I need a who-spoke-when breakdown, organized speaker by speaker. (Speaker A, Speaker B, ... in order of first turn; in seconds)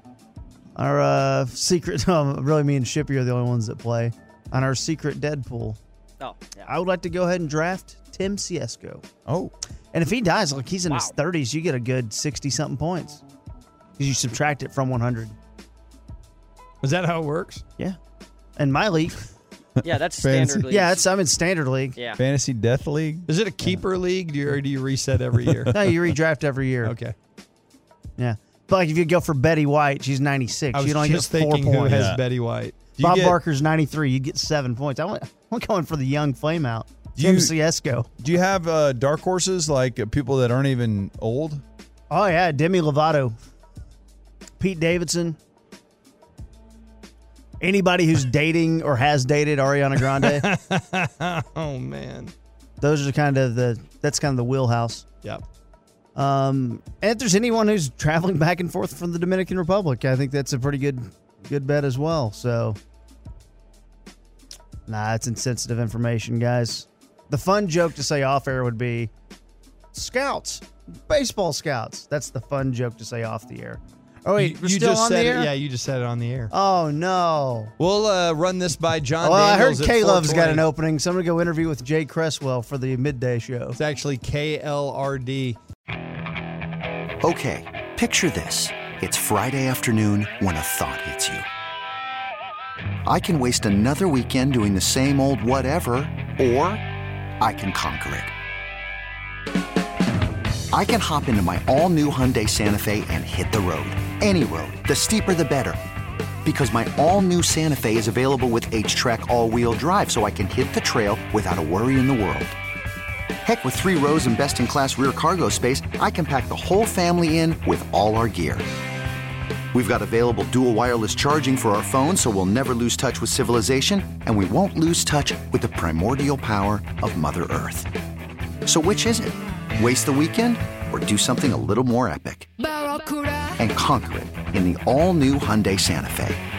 Speaker A: 0.8-5.8, 6.6-9.0, 9.9-13.2, 14.0-15.3, 18.6-19.2, 20.7-22.0, 25.7-26.9, 28.2-32.1, 33.0-38.1, 42.1-43.4, 44.6-45.4, 47.6-50.5, 52.8-55.0, 56.1-62.8, 64.9-69.1, 69.9-75.5, 76.5-77.7, 79.2-83.8
Speaker B: 6.2-6.7, 10.9-11.1, 19.8-21.1
Speaker C: 9.3-9.5, 20.2-20.7, 22.2-23.3, 25.5-25.9, 31.9-32.2, 33.0-33.4, 37.2-37.6, 38.2-41.6
Speaker D: 16.8-17.6, 23.3-25.8, 26.8-27.1, 30.7-32.8, 50.2-52.3, 74.4-76.5, 77.8-80.7, 83.8-85.6
Speaker E: 87.2-91.5, 93.0-96.8, 97.4-98.3, 100.7-105.8, 106.4-112.6, 113.4-118.7, 119.7-127.9, 128.7-132.5, 133.6-136.4